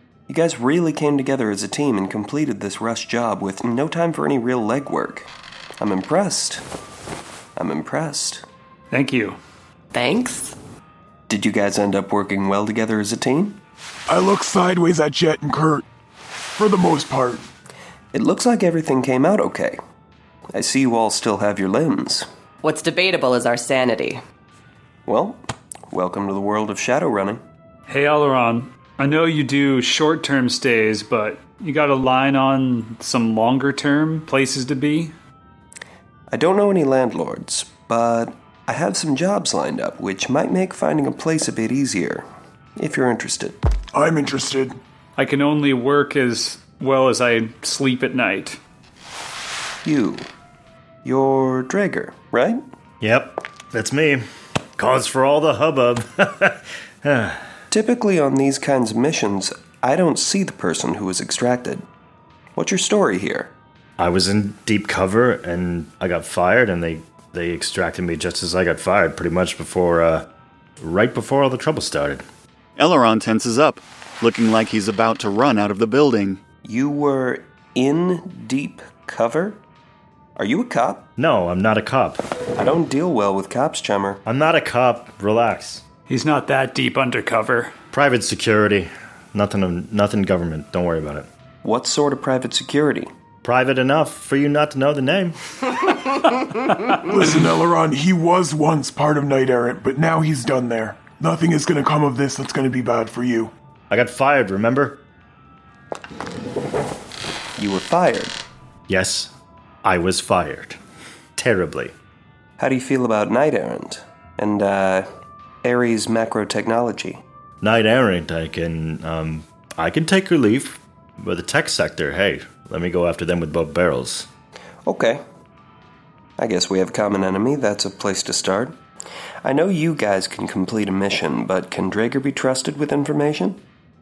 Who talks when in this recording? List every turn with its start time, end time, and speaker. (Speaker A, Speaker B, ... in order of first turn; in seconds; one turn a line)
Speaker A: 0.3-5.3
Speaker A: 5.8-6.6
Speaker A: 7.6-8.4
Speaker B: 8.9-9.4
Speaker C: 9.9-10.6
Speaker A: 11.3-13.6
Speaker D: 14.1-15.8
Speaker D: 16.6-17.5
Speaker A: 18.1-19.8
Speaker A: 20.5-22.3
Speaker C: 22.6-24.2
Speaker A: 25.1-27.4
Speaker B: 27.9-35.1
Speaker A: 36.3-43.6
Speaker D: 43.9-44.8
Speaker B: 45.2-48.6
Speaker A: 49.8-50.3
Speaker A: 51.0-52.6
Speaker E: 53.0-54.2
Speaker E: 54.8-57.4
Speaker A: 57.7-61.9
Speaker A: 62.6-63.5
Speaker E: 64.0-70.3
Speaker E: 70.8-72.2
Speaker F: 72.8-76.4
Speaker A: 76.6-79.6
Speaker A: 80.4-81.1
Speaker E: 81.2-82.2
Speaker A: 82.6-84.2
Speaker E: 84.2-85.8
Speaker B: 86.1-87.7
Speaker E: 87.9-91.3
Speaker A: 91.6-93.1
Speaker E: 93.4-95.3
Speaker D: 97.1-103.5
Speaker E: 103.9-105.0
Speaker A: 107.6-108.4
Speaker E: 108.9-109.3
Speaker E: 109.8-110.8
Speaker E: 111.4-111.9
Speaker A: 112.6-115.1
Speaker A: 115.6-117.2
Speaker E: 117.6-124.3
Speaker A: 124.8-125.2
Speaker A: 126.4-128.8
Speaker A: 129.4-133.6